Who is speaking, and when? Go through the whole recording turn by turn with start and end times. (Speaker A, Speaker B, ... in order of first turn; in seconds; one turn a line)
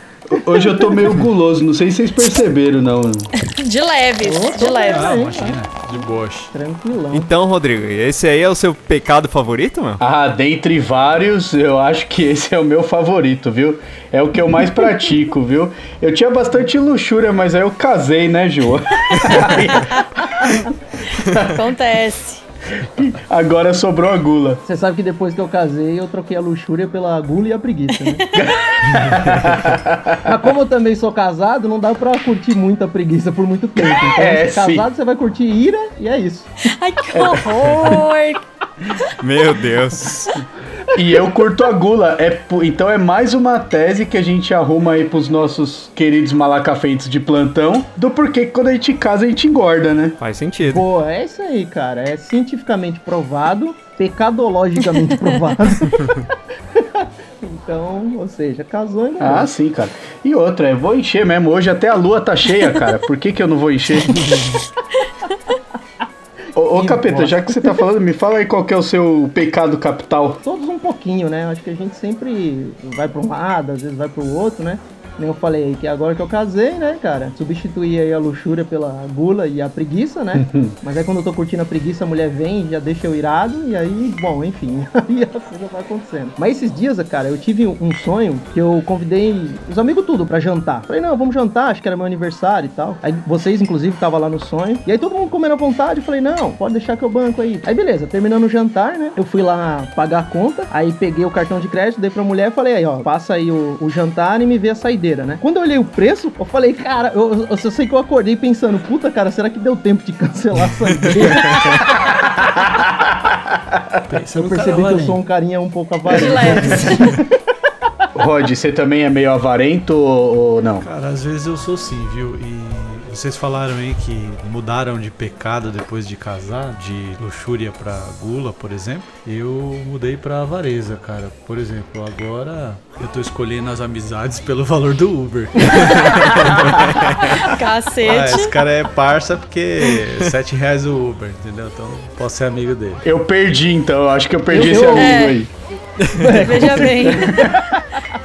Speaker A: 0.3-3.3
Speaker B: 3.4-5.2
Speaker C: 4.2-7.3
Speaker D: 4.9-6.5
Speaker E: 7.1-10.0
Speaker A: 10.0-19.9
Speaker B: 19.8-20.2
Speaker A: 21.3-21.6
Speaker B: 21.4-22.4
Speaker A: 22.8-24.6
Speaker C: 24.7-28.2
Speaker B: 28.0-28.9
Speaker A: 28.4-30.3
Speaker C: 30.2-36.7
Speaker A: 33.8-34.9
Speaker B: 36.7-38.4
Speaker A: 37.1-38.0
Speaker E: 39.2-40.4
Speaker A: 41.0-50.2
Speaker E: 50.2-50.9
Speaker C: 50.6-56.1
Speaker C: 56.8-59.5
Speaker A: 59.2-64.4
Speaker A: 66.5-70.4
Speaker C: 66.7-67.8
Speaker C: 70.4-111.9
Speaker A: 80.3-80.7
Speaker A: 112.4-114.0
Speaker D: 114.1-115.2
Speaker C: 114.3-117.2
Speaker B: 116.1-117.2
Speaker A: 118.2-120.9
Speaker D: 120.8-143.0
Speaker E: 135.9-137.4
Speaker B: 137.3-138.6
Speaker A: 143.0-145.5
Speaker C: 144.5-145.4
Speaker B: 145.0-145.4
Speaker C: 146.1-147.6
Speaker B: 146.3-147.5
Speaker A: 146.9-147.6